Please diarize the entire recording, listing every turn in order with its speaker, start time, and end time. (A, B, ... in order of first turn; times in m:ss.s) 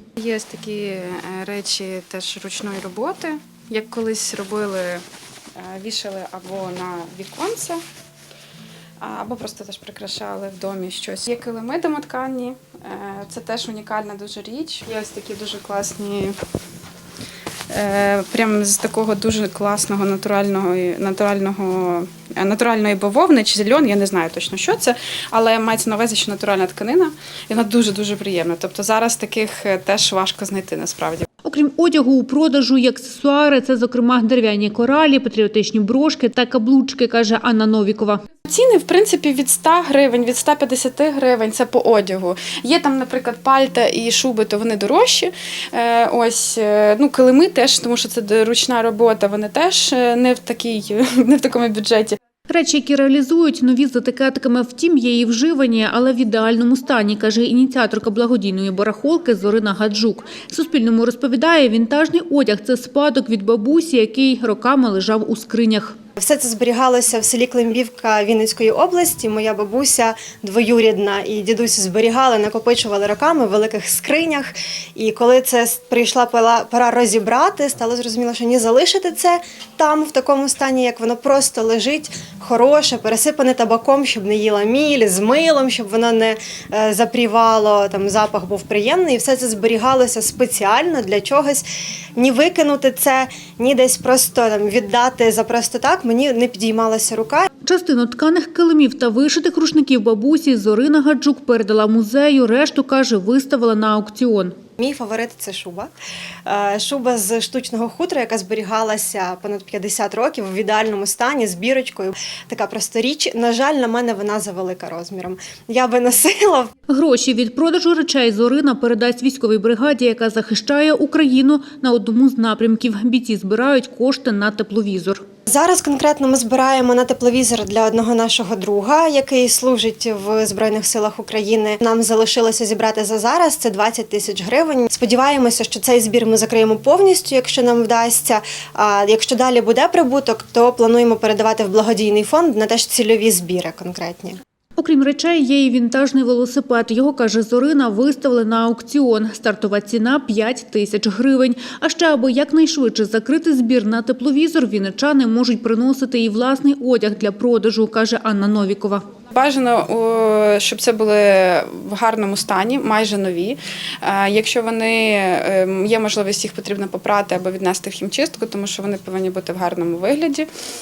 0:00.2-0:05.0 A
0:05.6-0:07.8 A
0:09.0-0:16.4 A
0:17.7-0:31.3 A
0:31.4-0:38.2 B
0:38.5-0:52.2 A
0:52.5-1:06.0 B
1:06.2-1:31.6 C
1:32.2-1:37.5 C
1:37.6-1:44.6 B
1:44.8-1:45.9 C
1:46.5-1:56.7 C
1:56.9-2:05.2 B
2:05.5-2:24.4 C
2:24.8-2:39.0 B
2:39.3-2:50.5 A